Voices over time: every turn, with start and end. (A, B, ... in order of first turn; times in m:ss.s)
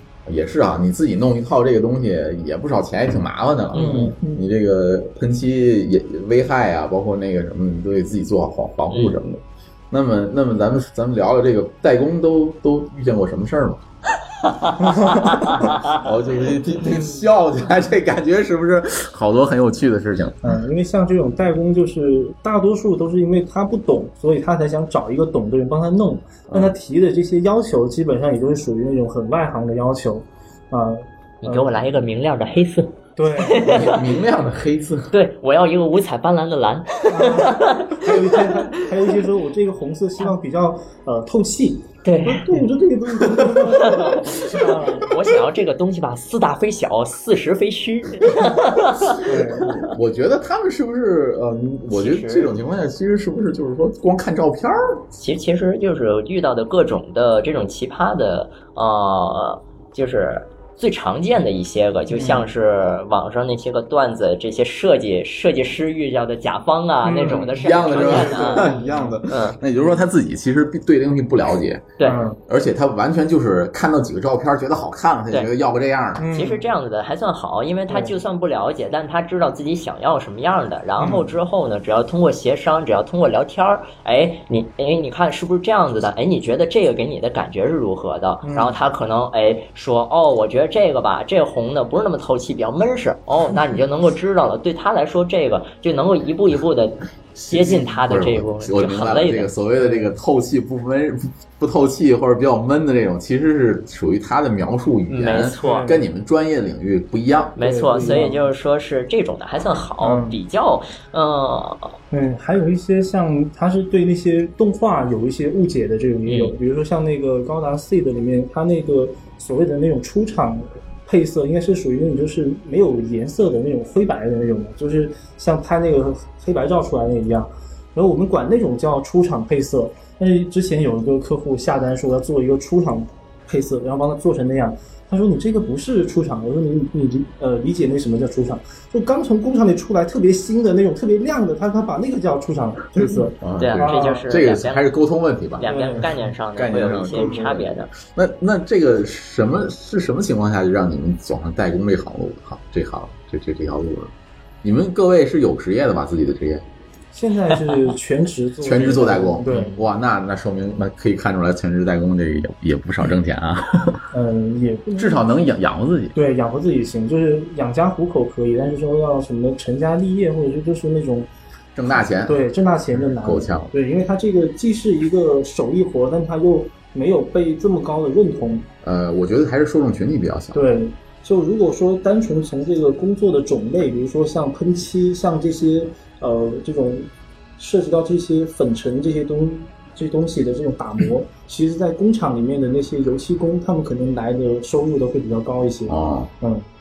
0:00.2-0:13.8 A
0:03.7-0:04.1 B
0:03.7-0:04.4 C
0:08.9-0:09.2 B
0:14.4-0:16.0 B
0:14.8-0:15.3 C
0:15.8-0:20.5 A
0:16.8-0:17.2 C
0:20.4-0:31.9 C
0:26.5-0:26.7 A
0:31.4-0:34.0 B
0:33.2-0:34.0 C
0:33.6-0:35.1 A
0:35.1-0:38.1 B
0:37.1-0:45.1 C
0:42.0-0:42.5 B
0:45.0-0:49.2 B
0:49.2-0:55.0 A
0:49.2-0:49.7 C
0:51.9-0:52.5 B
0:55.1-1:08.7 B
1:02.1-1:02.5 C
1:07.0-1:09.2 C
1:07.3-1:16.3 A
1:09.3-1:09.6 B
1:12.0-1:12.4 C
1:16.2-1:16.6 C
1:16.3-1:39.5 B
1:17.9-1:18.2 C
1:21.0-1:21.3 C
1:28.4-1:28.8 C
1:37.3-1:48.2 A
1:39.8-1:40.1 C
1:45.1-1:45.9 B
1:45.6-1:46.0 C
1:47.6-1:51.9 B
1:47.6-1:48.5 C
1:50.0-1:50.4 C
1:52.1-2:24.2 C
1:56.2-1:56.5 B
2:23.0-2:36.6 A
2:23.6-2:24.9 B
2:25.6-2:27.9 B
2:25.6-2:26.3 C
2:37.1-2:39.7 C
2:38.6-2:44.0 A
2:39.5-2:39.8 B
2:44.1-2:45.6 C
2:45.0-2:46.2 A
2:46.1-2:51.3 C
2:51.7-2:53.7 A
2:51.9-2:58.7 C
2:58.8-3:00.7 A
3:00.5-3:16.6 C
3:15.9-3:16.3 A